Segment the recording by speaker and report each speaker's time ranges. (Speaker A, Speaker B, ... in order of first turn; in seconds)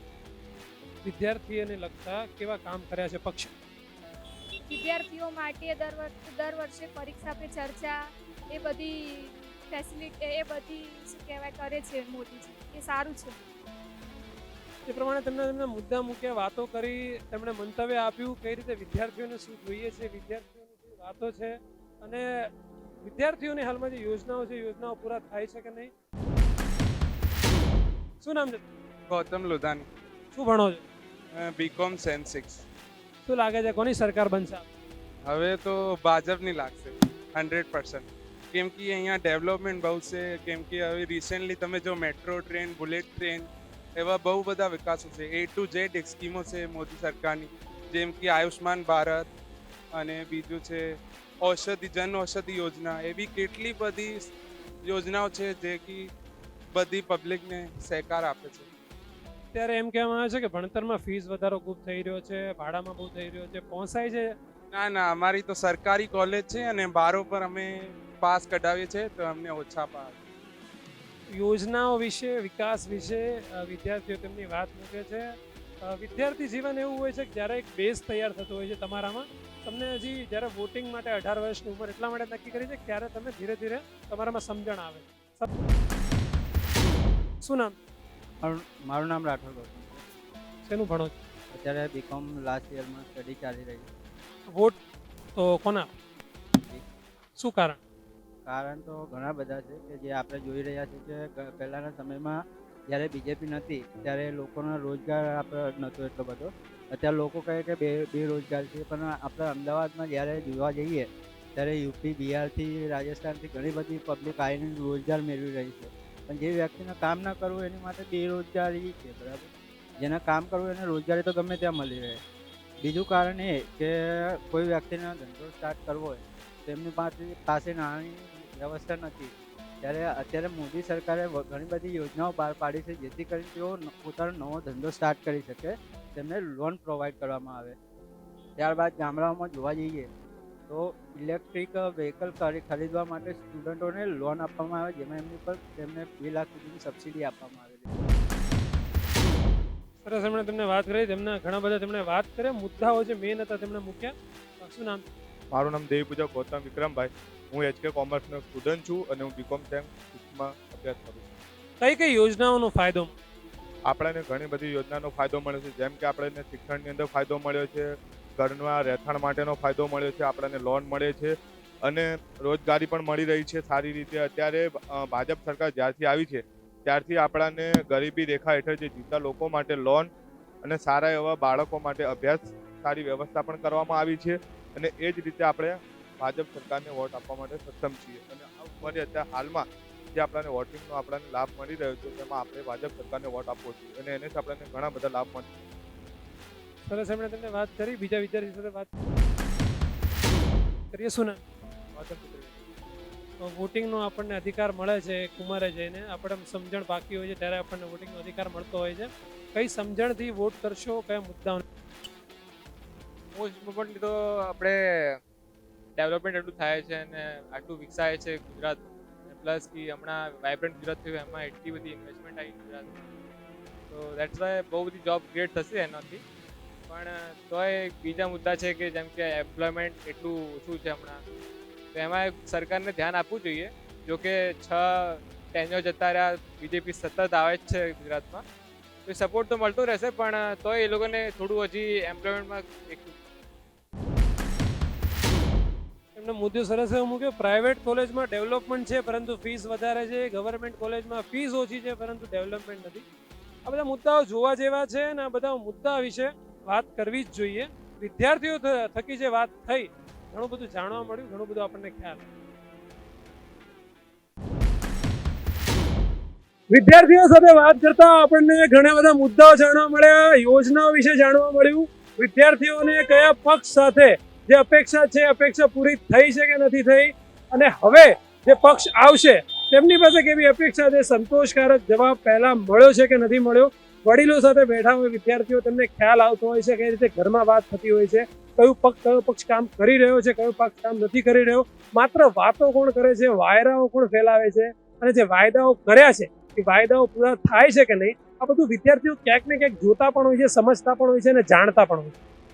Speaker A: 1.0-3.5, 14.8-22.5, 23.0-25.9, 28.2-28.6, 30.3-30.8, 33.2-34.6, 59.5-64.3, 71.3-85.5, 87.4-87.8, 90.7-91.1, 94.5-94.8, 95.3-95.9, 97.4-97.8, 150.0-155.0, 161.8-163.2, 196.8-198.9, 200.9-201.4, 203.4-211.6, 246.1-253.0, 253.6-262.2, 266.7-302.1
Speaker B: 4.7-13.3
Speaker C: 29.1-29.9, 31.3-32.6, 35.3-49.3, 50.0-50.8, 51.4-54.3, 54.8-56.1, 56.7-58.7, 64.7-70.2
Speaker D: 88.4-90.0, 91.5-93.9, 98.5-102.4, 102.9-119.5, 120.0-122.2, 122.8-137.8, 138.6-140.1, 140.7-148.1
Speaker E: 155.5-161.2, 163.9-171.3, 171.8-180.1, 180.6-195.5
Speaker F: 213.3-215.2, 216.0-223.1, 223.9-226.2, 226.9-231.2, 231.9-238.4, 239.1-243.2